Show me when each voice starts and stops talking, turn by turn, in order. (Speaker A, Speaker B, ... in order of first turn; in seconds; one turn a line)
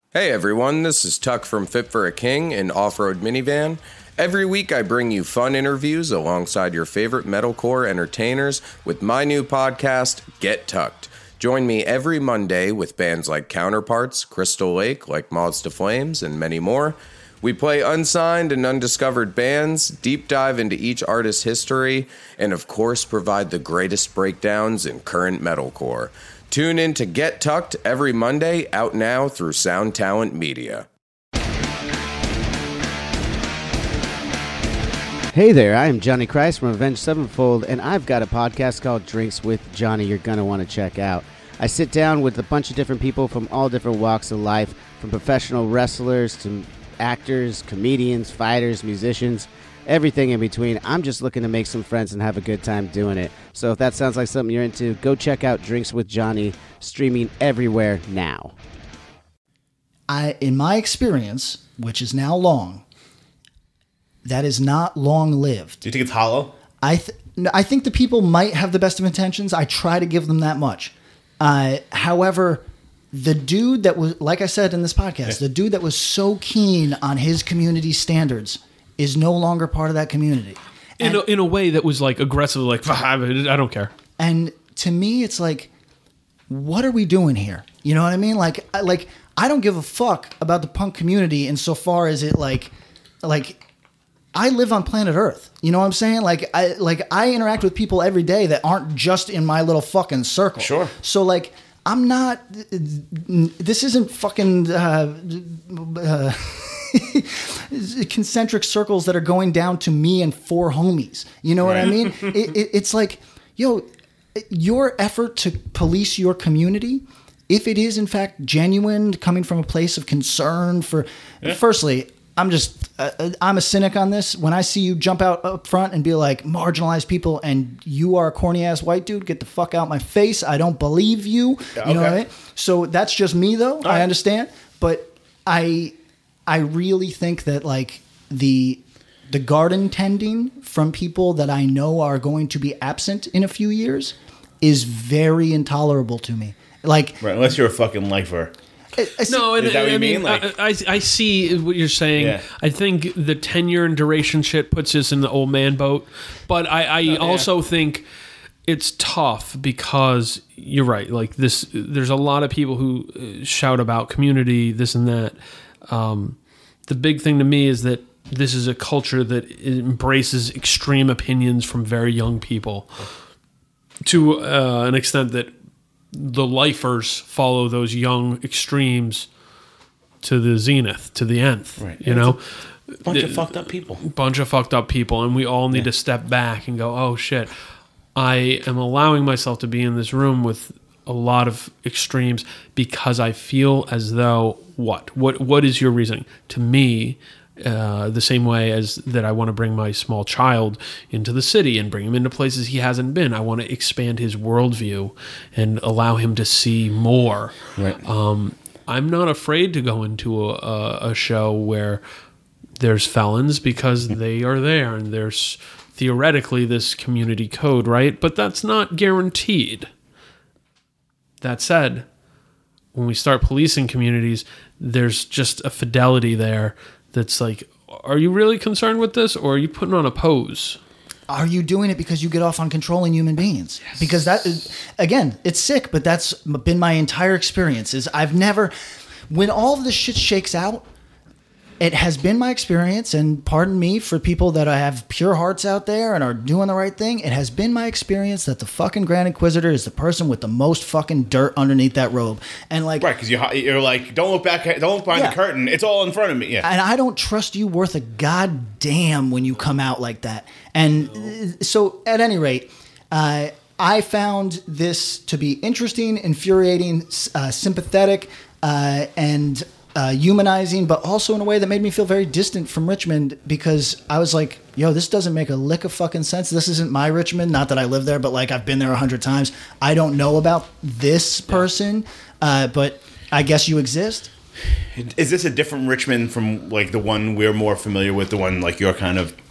Speaker A: 0.1-30.9
Speaker B: 35.3-58.5
Speaker C: 60.1-62.8
Speaker C: 64.2-65.8
Speaker D: 65.8-66.5
Speaker C: 66.8-81.2
Speaker E: 81.0-83.9
Speaker C: 84.2-85.7
Speaker C: 86.5-92.7
Speaker C: 93.2-93.6
Speaker C: 94.3-135.9
Speaker D: 100.6-100.9
Speaker D: 111.6-112.1
Speaker D: 131.8-132.2
Speaker C: 136.5-147.2
Speaker D: 147.2-148.5
Speaker C: 148.9-149.6
Speaker E: 149.3-158.0
Speaker D: 149.5-150.5
Speaker D: 152.2-152.4
Speaker D: 157.1-157.5
Speaker E: 158.7-165.4
Speaker E: 165.9-173.0
Speaker E: 174.0-175.5
Speaker E: 176.1-179.3
Speaker E: 180.2-182.4
Speaker D: 181.8-182.3
Speaker D: 183.0-184.0
Speaker E: 183.1-183.4
Speaker E: 184.0-187.5
Speaker E: 188.1-212.0
Speaker D: 207.8-208.0
Speaker E: 212.8-219.9
Speaker E: 221.4-222.1
Speaker E: 222.9-230.8
Speaker C: 231.3-238.7
Speaker C: 239.3-240.8
Speaker C: 241.8-253.1
Speaker D: 253.0-256.7
Speaker C: 255.1-255.4
Speaker C: 256.6-284.3
Speaker D: 284.9-289.4